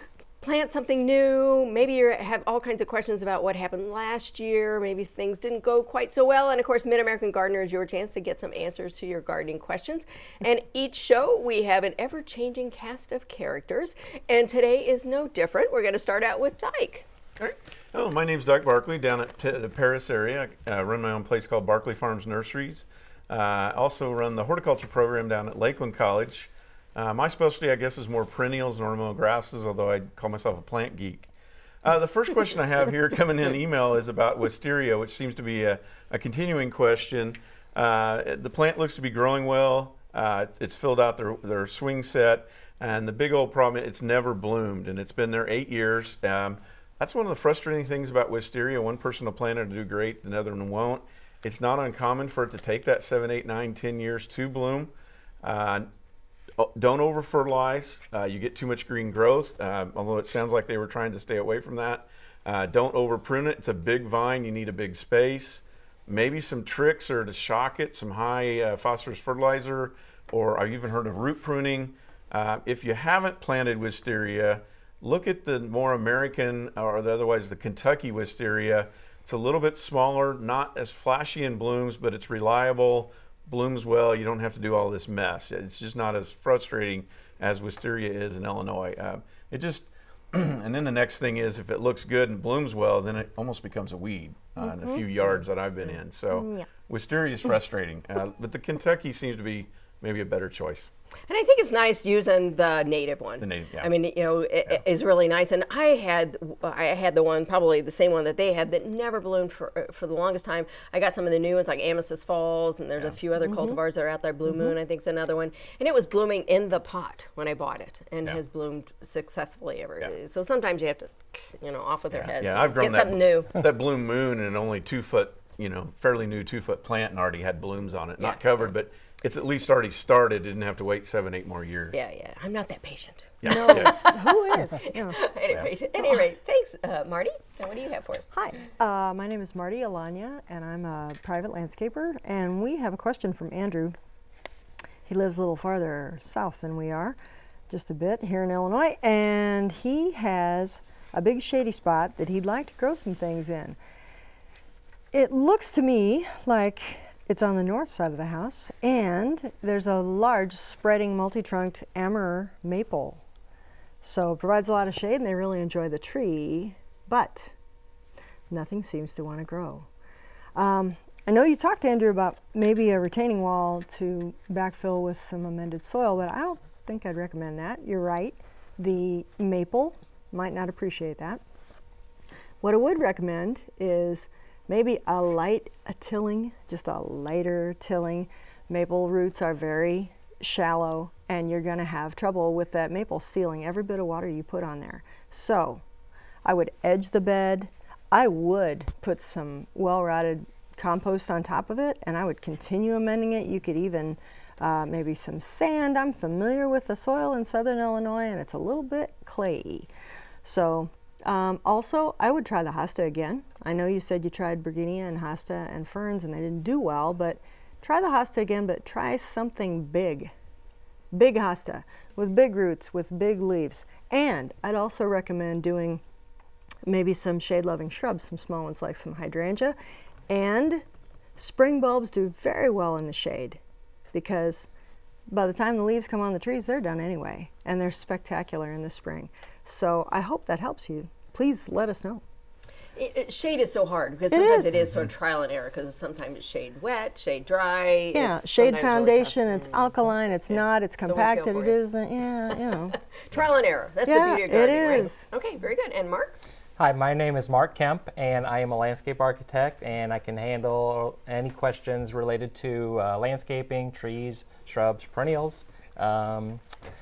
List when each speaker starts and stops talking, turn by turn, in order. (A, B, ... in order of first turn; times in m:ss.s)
0:00.4-0:17.1 A
0:17.4-0:31.3 B
0:31.8-0:54.9 B
0:55.4-0:55.9 B
0:56.6-1:40.9 B
1:34.6-1:35.3 C
1:36.3-1:36.7 C
1:41.3-2:03.5 A
1:43.4-1:43.9 B
1:53.4-1:53.8 C
1:54.4-1:54.7 C
2:02.2-2:12.0 B
2:08.2-2:08.7 A
2:11.9-2:18.3 A
2:13.4-2:14.0 B
2:13.4-2:15.2 C
2:18.3-2:24.0 C
2:25.0-2:27.2 C
2:27.7-2:33.8 C
2:35.1-2:43.2 C
2:44.0-2:47.5 C
2:48.5-2:49.9 C
2:50.5-3:01.4 C
3:02.6-3:15.8 C
3:16.4-3:29.9 C
3:30.4-3:40.3 C
3:41.1-3:46.0 C
3:46.8-3:49.8 C
3:50.3-3:50.8 C
3:51.4-3:53.6 C
3:54.1-3:54.7 C
3:55.3-4:02.2 C
4:02.9-4:09.9 A
4:04.3-4:04.8 C
4:08.1-4:13.0 C
4:10.5-4:11.8 A
4:13.1-4:16.4 A
4:14.1-4:15.2 C
4:16.8-4:26.6 D